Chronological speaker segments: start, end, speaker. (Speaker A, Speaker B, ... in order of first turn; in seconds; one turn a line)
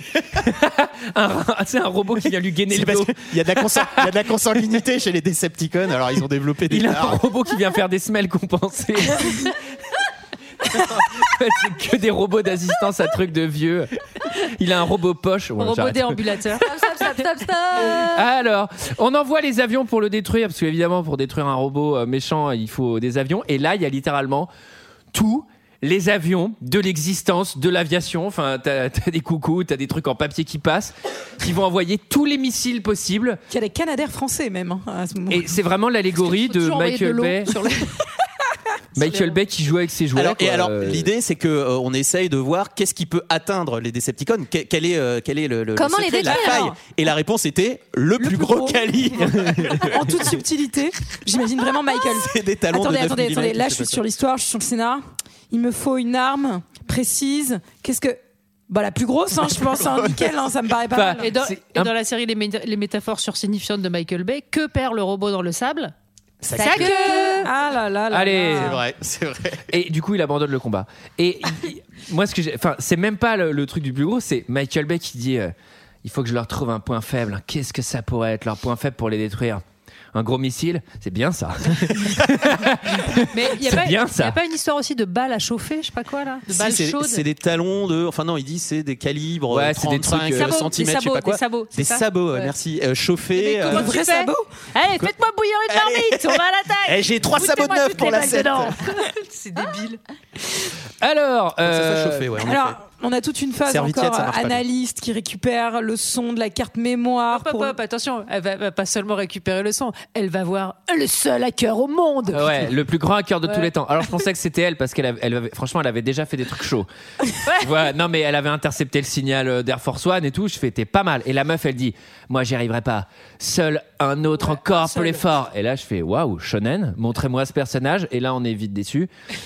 Speaker A: 0.3-4.1
Speaker B: 2.7-7.2
Speaker A: 6.7-9.5
Speaker A: 10.7-16.2
Speaker C: 15.6-16.7
Speaker D: 16.6-18.2
Speaker A: 17.8-24.5
Speaker A: 25.1-33.4
Speaker E: 33.5-35.5
Speaker A: 35.3-37.5
Speaker C: 36.2-38.0
Speaker A: 39.0-41.1
Speaker C: 39.0-39.3
Speaker B: 40.1-50.2
Speaker D: 45.7-46.7
Speaker E: 48.2-58.2
Speaker B: 52.1-54.0
Speaker E: 58.7-61.3
Speaker B: 59.8-60.3
Speaker A: 60.9-61.9
Speaker C: 61.2-65.9
Speaker B: 66.4-67.0
Speaker D: 66.5-67.5
Speaker C: 66.5-67.4
Speaker E: 66.7-68.8
Speaker A: 68.1-68.8
Speaker B: 68.5-69.7
Speaker A: 69.7-75.5
Speaker A: 76.0-79.6
Speaker A: 80.1-84.4
Speaker C: 83.3-87.2
Speaker B: 86.5-94.0
Speaker A: 89.5-90.5
Speaker C: 90.3-92.5
Speaker E: 93.4-94.5
Speaker C: 93.5-100.0
Speaker B: 95.7-98.8
Speaker A: 101.0-102.3
Speaker B: 101.6-102.8
Speaker E: 102.4-107.7
Speaker B: 103.7-104.6
Speaker C: 107.3-112.7
Speaker A: 112.3-116.9
Speaker A: 117.6-129.1
Speaker C: 124.4-125.2